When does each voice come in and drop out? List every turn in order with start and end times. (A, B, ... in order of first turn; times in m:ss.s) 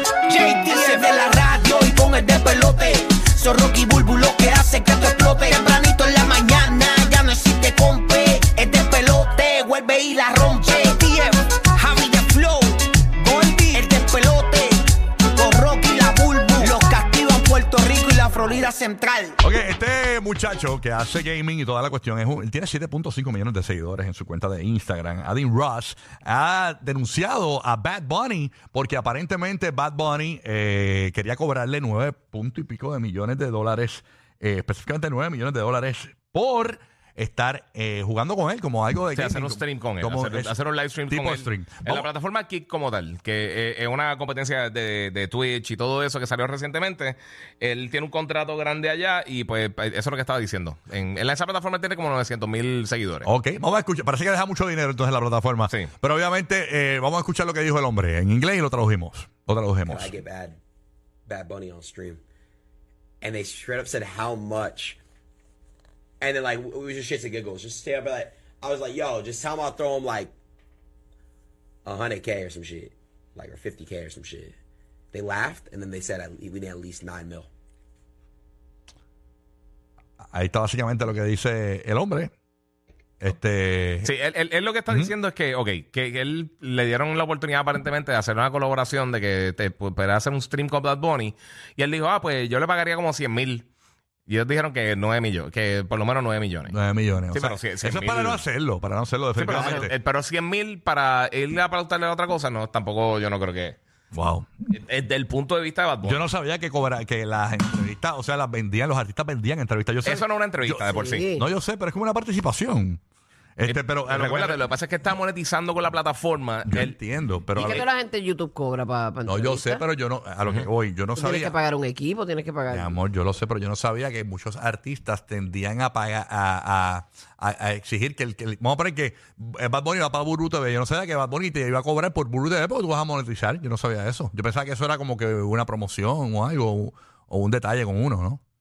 0:00.3-0:19.4 A
0:19.4-0:42.1 B
0:39.2-0:53.3 C
0:53.2-1:00.2 B
0:59.9-1:00.6 D
1:01.3-1:02.2 D
1:03.2-1:05.0 D
1:06.2-1:10.3 D
1:11.8-1:14.6 D
1:15.1-1:17.5 D
1:20.3-1:22.3 B
1:23.2-1:24.1 B
1:24.0-1:33.7 C
1:34.3-1:36.8 C
1:36.7-1:39.9 B
1:37.3-1:38.4 C
1:39.4-1:43.8 C
1:39.5-1:39.9 E
1:44.1-1:44.5 B
1:44.7-1:46.2 C
1:46.0-1:53.0 B
1:50.0-1:51.3 C
1:50.9-1:51.5 E
1:53.6-1:54.6 B
1:53.7-1:57.0 C
1:56.7-1:57.8 B
1:57.6-1:57.9 C
1:57.6-1:59.8 E
1:59.3-2:01.6 B
2:01.2-2:03.0 E
2:02.7-2:18.4 B